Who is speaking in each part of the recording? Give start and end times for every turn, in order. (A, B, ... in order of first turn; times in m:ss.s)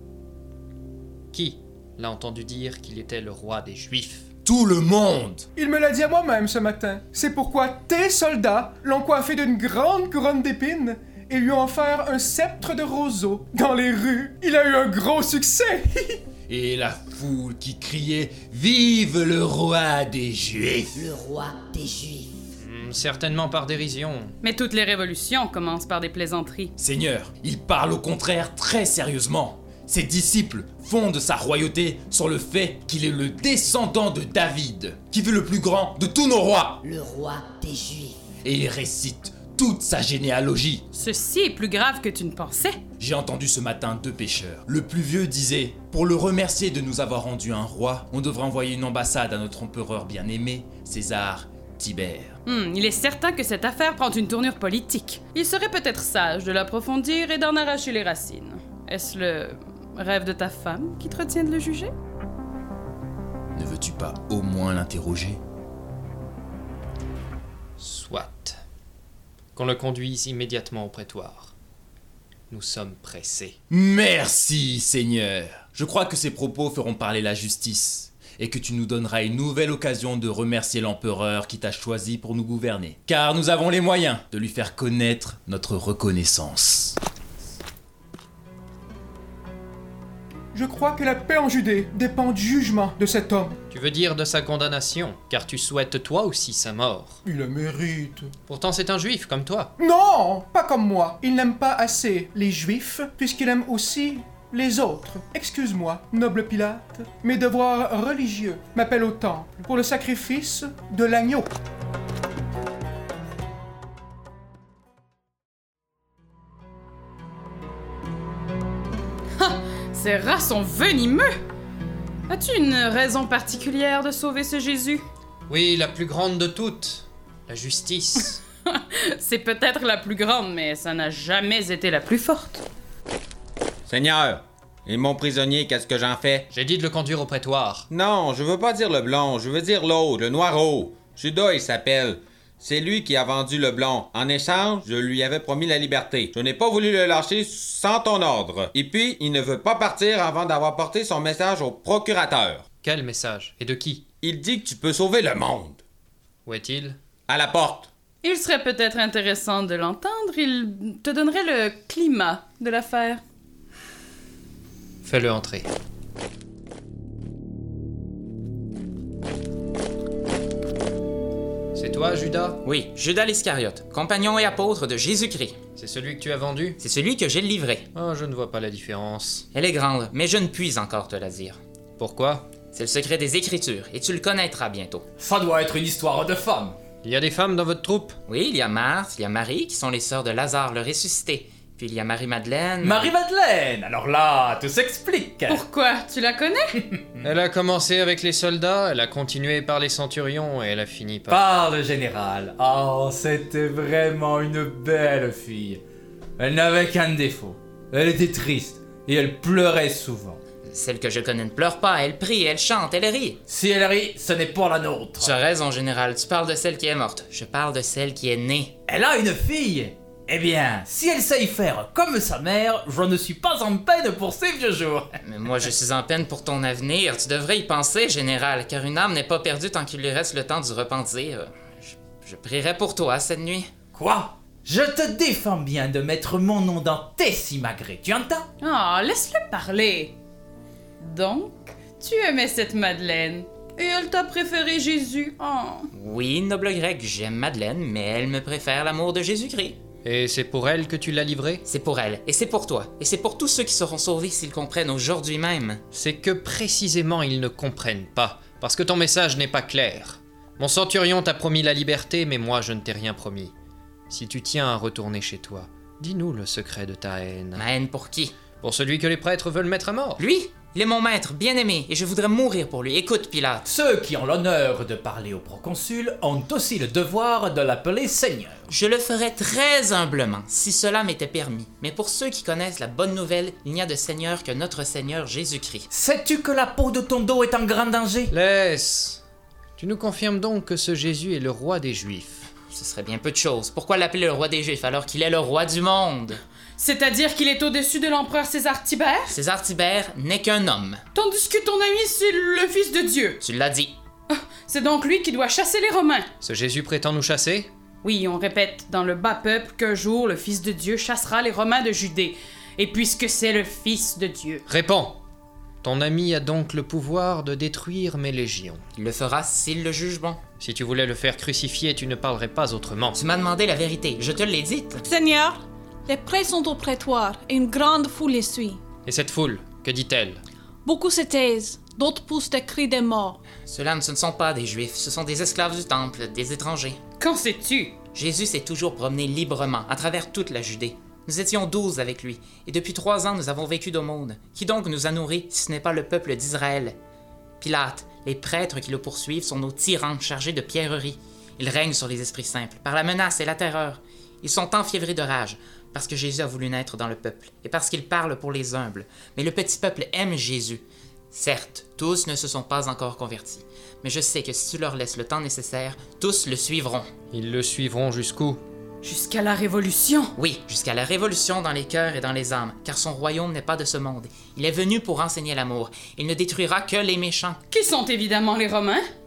0:01.3-0:04.3 A
0:04.4-0:05.5 B
0:05.6-0:16.2 C
0:16.5-0:21.0 B
0:20.9-0:22.4 D
0:22.6-0:24.3 A
0:24.4-0:26.7 E
0:26.8-0:36.8 B
0:36.8-0:38.2 D
0:38.4-0:40.8 B
0:40.9-0:42.8 E
0:43.0-0:52.4 B
0:52.4-1:01.9 E
1:03.5-1:05.4 B
1:07.8-1:08.6 A
1:09.5-1:11.5 A
1:12.5-1:13.6 A
1:13.7-1:27.0 B
1:30.5-1:33.6 C
1:33.7-1:37.2 A
1:37.2-1:38.3 C
1:38.5-1:39.7 A
1:39.8-1:51.5 C
1:59.4-2:01.4 E
2:02.3-2:05.0 E
2:05.5-2:08.4 A
2:08.7-2:12.6 E
2:13.9-2:16.5 F
2:16.5-2:17.9 A
2:17.9-2:32.6 F
2:32.8-2:34.0 A
2:34.2-2:35.8 F
2:36.4-2:37.0 A
2:37.3-2:37.9 F
2:38.2-2:43.2 E
2:45.0-2:45.7 A
2:51.7-2:52.6 A
2:52.6-2:55.6 G
2:55.8-2:56.8 A
2:56.8-2:57.9 G
2:57.9-2:59.5 A
2:59.5-3:01.6 G
3:02.0-3:02.4 A
3:02.7-3:05.0 G
3:05.2-3:06.8 H
3:07.0-3:08.2 A
3:08.3-3:13.1 G
3:12.8-3:15.6 H
3:15.5-3:16.8 E
3:17.2-3:21.4 A
3:21.3-3:25.8 H
3:26.4-3:30.4 H
3:30.7-3:33.4 G
3:33.5-3:35.4 H
3:35.2-3:38.8 G
3:38.9-3:45.1 H
3:45.2-3:53.7 G
3:53.9-3:58.5 H
3:58.6-4:00.2 E
4:01.0-4:05.9 E
4:05.9-4:09.8 G
4:10.0-4:11.6 A
4:11.6-4:15.8 G
4:15.9-4:23.5 A
4:24.1-4:27.6 A
4:27.5-4:28.4 G
4:28.6-4:30.2 A
4:30.2-4:33.6 G
4:33.6-4:38.6 H
4:38.7-4:45.9 G
4:45.9-4:48.3 H
4:48.3-4:49.2 A
4:49.8-4:52.5 A
4:52.7-4:56.4 G
4:56.8-4:59.4 E
4:59.3-5:01.0 G
5:01.1-5:03.4 E
5:03.4-5:04.0 G
5:04.3-5:06.3 E
5:06.4-5:07.7 A
5:08.0-5:14.6 E
5:14.7-5:15.2 A
5:15.8-5:18.8 A
5:19.0-5:20.4 G
5:20.6-5:23.2 A
5:23.2-5:25.0 G
5:25.0-5:28.8 I
5:29.0-5:30.4 A
5:30.8-5:33.4 I
5:33.6-5:37.0 G
5:37.2-5:38.0 E
5:38.1-5:47.0 G
5:47.6-6:07.1 G
6:07.3-6:08.6 A
6:09.0-6:10.3 E
6:10.4-6:17.6 G
6:17.7-6:19.0 E